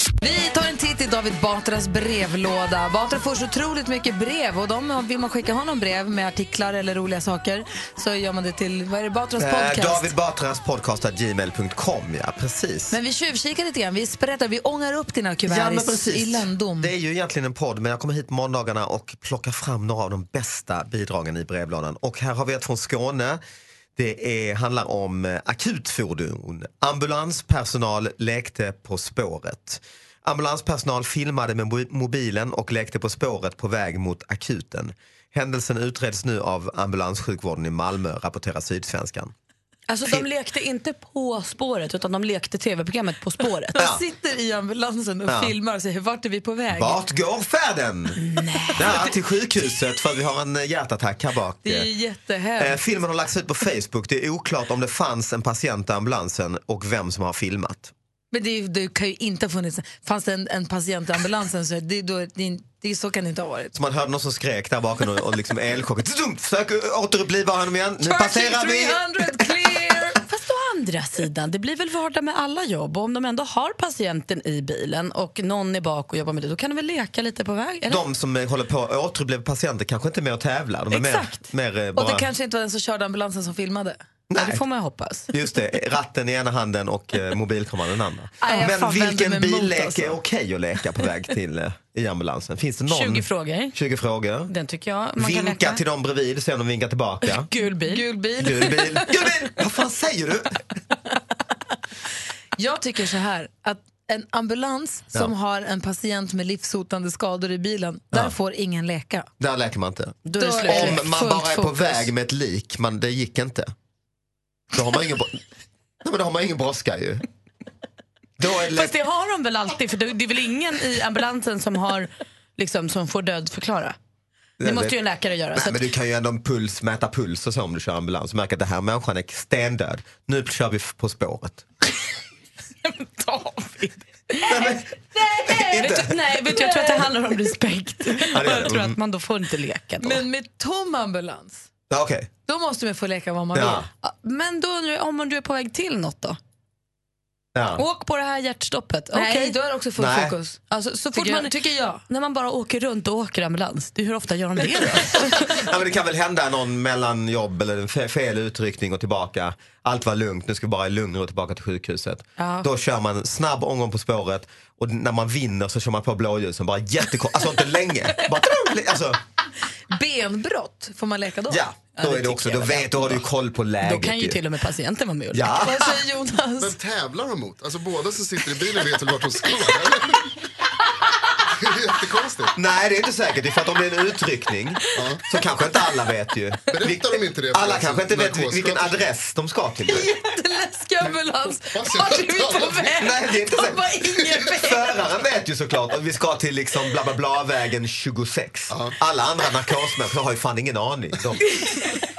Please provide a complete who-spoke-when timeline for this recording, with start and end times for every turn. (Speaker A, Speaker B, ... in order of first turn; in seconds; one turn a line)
Speaker A: 0.2-10.1
Speaker B: 9.4-13.0
Speaker A: 12.9-16.9
Speaker B: 15.5-23.4
Speaker B: 24.0-39.3
Speaker C: 39.9-43.8
Speaker A: 43.8-47.0
Speaker B: 43.8-44.0
Speaker B: 45.3-45.5
Speaker B: 46.7-48.2
Speaker C: 48.2-49.1
Speaker B: 48.8-51.9
Speaker A: 51.6-52.8
Speaker B: 52.6-57.9
Speaker A: 58.3-63.8
Speaker B: 63.7-69.5
Speaker A: 68.0-70.2
Speaker C: 70.2-78.0
Speaker B: 77.9-82.3
Speaker C: 80.9-81.5
Speaker A: 82.0-84.0
Speaker B: 84.3-84.6
Speaker C: 84.3-85.3
Speaker B: 85.3-94.5
Speaker A: 88.4-90.2
Speaker C: 92.9-93.8
Speaker C: 94.5-95.8
Speaker B: 95.2-97.5
Speaker C: 97.3-98.0
Speaker A: 97.8-99.2
Speaker B: 98.4-100.6
Speaker A: 102.6-109.3
Speaker B: 109.4-113.7
Speaker C: 110.2-111.1
Speaker A: 110.3-112.1
Speaker B: 114.7-115.4
Speaker B: 116.0-117.3
Speaker B: 118.4-119.0
Speaker C: 118.7-124.0
Speaker B: 124.6-125.0
Speaker C: 124.6-125.8
Speaker B: 125.5-131.7
Speaker C: 132.8-134.5
Speaker B: 134.5-136.2
Speaker A: 134.5-137.1
Speaker C: 135.7-140.2
Speaker B: 138.3-139.0
Speaker A: 140.0-141.7
Speaker B: 141.9-142.3
Speaker A: 142.5-143.9
Speaker B: 143.5-143.9
Speaker C: 144.0-146.4
Speaker B: 147.6-147.8
Speaker C: 147.8-149.6
Speaker A: 149.1-152.0
Speaker B: 150.0-150.3
Speaker C: 150.7-151.5
Speaker C: 152.1-155.5
Speaker B: 154.7-169.2
Speaker C: 162.4-162.7
Speaker A: 169.9-171.6
Speaker B: 171.5-174.4
Speaker C: 172.0-173.2
Speaker C: 173.8-175.5
Speaker B: 175.3-176.0
Speaker A: 175.6-176.8
Speaker D: 176.6-180.3
Speaker D: 181.5-182.5
Speaker B: 182.6-190.1
Speaker D: 184.9-185.2
Speaker D: 186.7-189.0
Speaker A: 189.9-195.1
Speaker D: 191.7-192.9
Speaker B: 193.0-193.9
Speaker B: 194.5-201.5
Speaker D: 198.7-199.0
Speaker C: 201.6-202.0